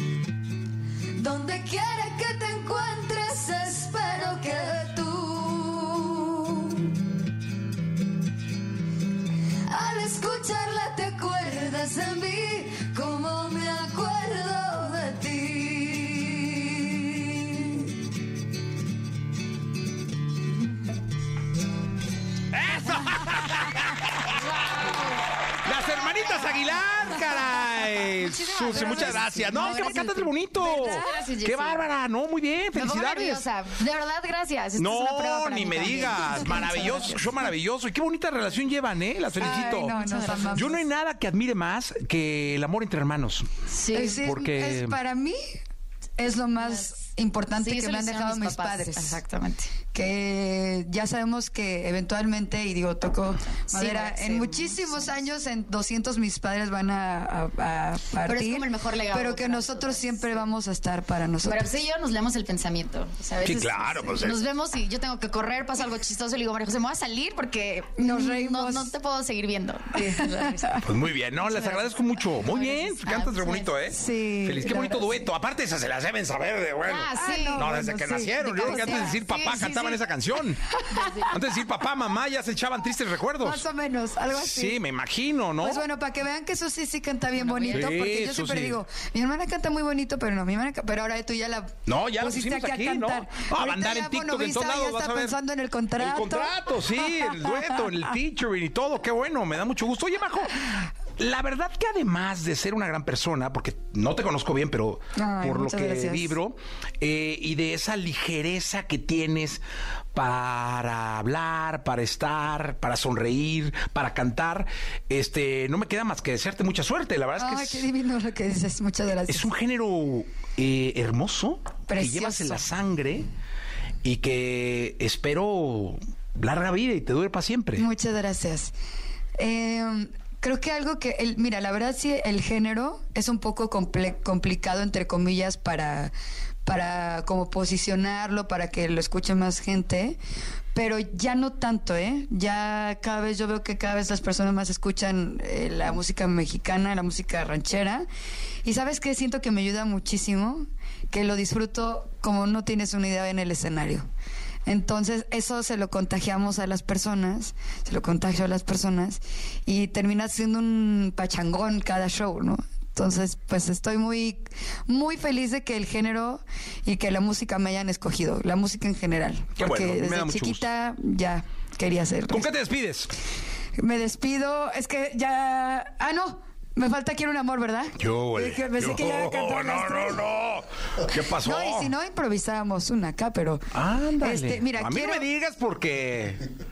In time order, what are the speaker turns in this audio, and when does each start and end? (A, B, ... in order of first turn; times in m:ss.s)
0:01.1-0:06.9 A
0:09.7-0:17.9 A
0:22.5-0:24.5 B
0:24.8-0:25.1 C
0:25.6-0:33.4 B
0:25.7-0:26.5 C
0:28.3-0:31.8 C
0:28.6-0:30.3 D
0:32.7-0:37.2 C
0:34.8-0:39.9 B
0:36.7-0:37.1 D
0:39.4-0:40.6 C
0:39.4-0:40.8 D
0:40.5-0:43.5 B
0:43.6-0:44.2 C
0:43.9-0:45.4 D
0:44.2-0:45.0 B
0:46.2-0:49.2 D
0:46.6-0:49.8 C
0:49.9-1:01.7 D
0:53.7-0:55.2 C
0:58.2-1:00.4 C
1:01.4-1:13.8 C
1:03.4-1:04.4 B
1:08.0-1:08.9 D
1:10.0-1:10.8 D
1:10.8-1:20.6 B
1:13.9-1:15.2 D
1:16.9-1:17.8 C
1:17.1-1:19.2 D
1:18.4-1:20.2 C
1:20.8-1:21.2 D
1:20.9-1:21.6 C
1:21.3-1:23.6 B
1:23.4-1:24.8 D
1:24.3-1:25.8 B
1:25.6-1:37.9 D
1:27.3-1:28.0 C
1:27.7-1:28.8 B
1:31.9-1:35.4 B
1:36.0-1:49.6 B
1:45.1-1:46.4 D
1:50.1-1:57.9 B
1:57.4-1:59.5 D
1:59.3-2:03.3 B
2:01.9-2:02.6 D
2:04.0-2:07.9 B
2:07.8-2:08.7 D
2:09.4-2:16.1 D
2:16.6-2:20.2 D
2:20.7-2:28.1 D
2:28.6-2:34.0 D
2:34.6-2:52.5 D
2:49.6-2:50.6 B
2:52.3-2:53.1 B
2:53.8-3:00.2 D
2:58.0-3:01.9 B
3:01.4-3:03.7 D
3:03.7-3:06.4 B
3:04.2-3:05.3 D